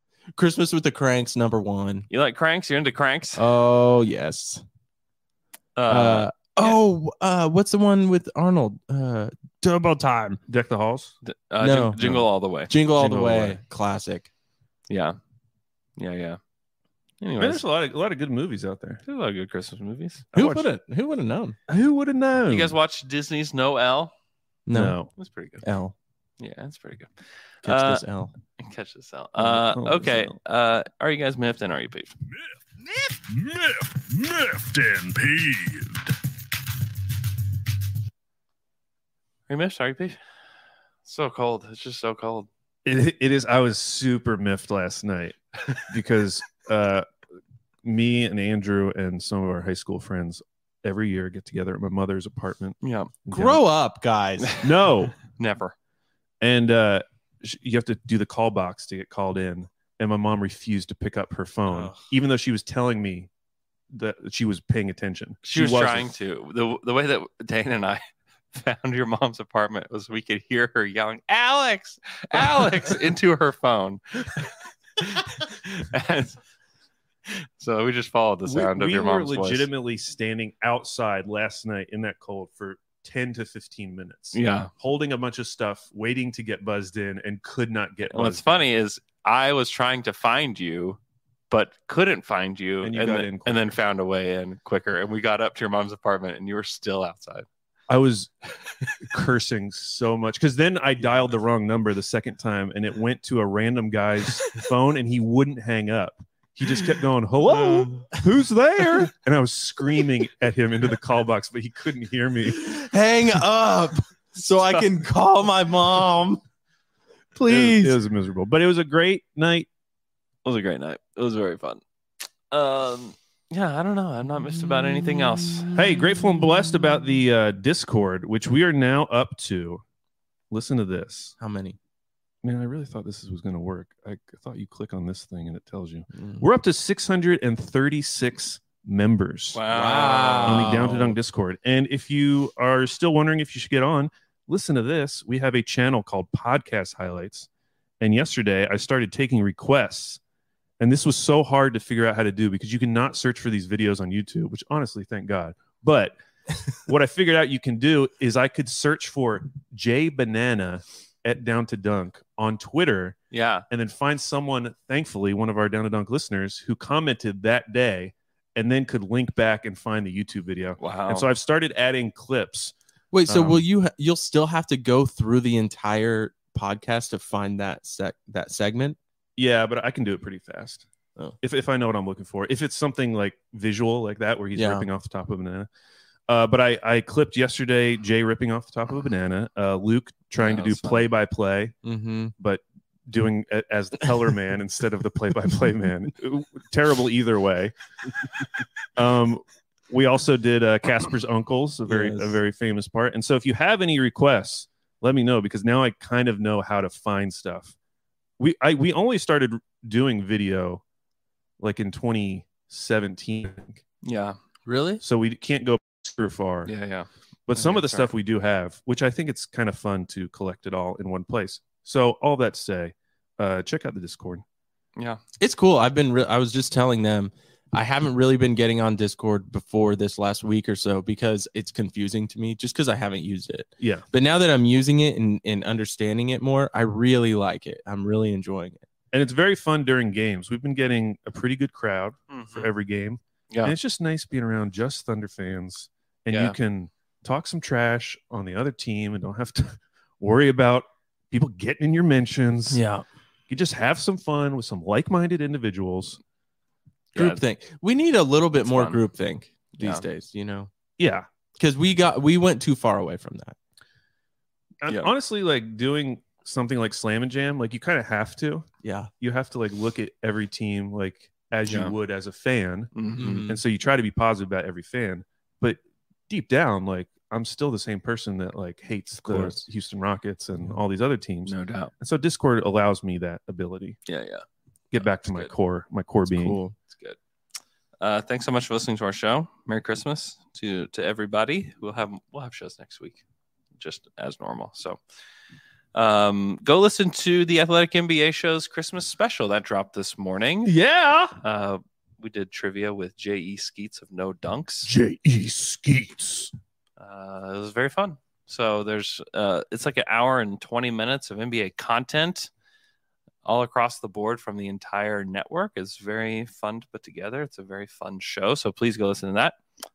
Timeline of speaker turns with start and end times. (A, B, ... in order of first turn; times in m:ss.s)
0:00.4-0:02.0 A
0:02.1-0:03.4 B
0:03.4-0:04.6 A
0:05.8-0:06.8 B
0:05.9-0:10.4 A
0:10.5-0:11.1 C
0:11.2-0:12.7 B
0:11.6-0:12.1 A
0:12.0-0:12.2 C
0:12.7-0:14.3 A
0:12.9-0:13.6 C
0:14.9-0:15.2 B
0:16.0-0:16.4 B
0:17.2-0:17.6 B
0:17.4-0:19.0 C
0:19.0-0:20.3 B
0:20.3-0:20.7 C
0:20.3-0:21.6 A
0:21.7-0:22.8 C
0:22.5-0:24.1 B
0:24.7-0:25.0 A
0:24.7-0:25.1 C
0:25.2-0:25.6 B
0:25.6-0:25.9 A
0:26.4-0:27.1 B
0:27.6-0:28.0 B
0:27.6-0:28.3 A
0:28.6-0:32.1 B
0:29.4-0:30.4 C
0:33.3-0:35.9 C
0:39.5-0:40.2 B
0:41.0-0:42.5 B
0:42.8-0:47.0 C
0:47.8-0:53.6 C
0:52.8-0:53.1 B
0:53.3-0:54.7 A
0:54.6-0:55.1 C
0:55.3-0:55.7 B
0:56.4-1:03.3 C
1:01.7-1:02.0 A
1:03.9-1:06.1 C
1:05.4-1:08.0 B
1:08.5-1:16.4 B
1:17.3-1:19.7 B
1:18.4-1:28.7 C
1:24.3-1:24.7 B
1:28.1-1:31.0 B
1:31.5-1:37.4 B
1:32.8-1:33.7 C
1:37.9-1:38.3 C
1:39.0-1:52.8 C
1:52.5-1:56.4 A
1:54.6-1:54.9 B
1:57.3-1:58.0 A
1:57.5-1:59.7 C
2:00.4-2:01.8 B
2:02.5-2:05.7 B
2:05.7-2:09.8 C
2:10.5-2:11.4 C
2:11.4-2:11.8 A
2:12.4-2:19.6 C
2:16.2-2:16.5 A
2:19.5-2:21.0 B
2:19.7-2:21.1 A
2:20.4-2:27.5 C
2:28.0-2:30.2 C
2:30.8-2:36.2 C
2:36.8-2:43.2 C
2:43.3-2:43.6 B
2:43.7-2:52.7 C
2:50.8-2:51.2 B
2:53.1-2:59.0 A
2:53.3-2:53.6 C
2:59.4-3:00.8 C
3:01.4-3:05.7 C
3:04.6-3:04.8 A
3:06.3-3:11.8 C
3:10.4-3:11.0 B
3:11.8-3:12.3 A
3:12.4-3:17.7 C
3:18.9-3:27.7 C
3:21.9-3:22.4 A
3:28.4-3:30.8 C
3:31.6-3:33.8 C
3:34.0-3:34.4 B
3:34.7-3:35.0 A
3:35.0-3:36.7 C
3:36.7-3:38.1 B
3:37.5-3:44.4 C
3:45.4-3:58.8 A
3:53.8-3:54.0 C
3:59.1-4:12.8 C
4:02.3-4:02.7 B
4:12.7-4:13.0 A
4:13.5-4:16.2 C
4:17.1-4:17.4 B
4:17.1-4:20.7 A
4:18.6-4:19.0 B
4:19.8-4:20.0 B
4:21.0-4:21.3 C
4:21.6-4:23.5 A
4:24.8-4:28.7 C
4:28.8-4:29.1 A
4:29.2-4:32.9 C
4:31.7-4:31.9 B
4:32.9-4:33.4 B
4:33.2-4:33.6 A
4:33.4-4:44.0 C
4:39.2-4:39.6 A
4:41.4-4:41.9 B
4:44.1-4:44.4 B
4:44.9-4:46.6 C
4:45.0-4:45.5 B
4:46.3-4:46.7 A
4:46.9-4:47.2 B
4:48.0-4:53.2 B
4:53.8-4:55.0 B
4:55.9-5:00.8 B
5:00.6-5:01.4 C
5:01.4-5:04.9 B
5:04.8-5:06.5 C
5:07.0-5:12.5 B
5:13.4-5:19.6 B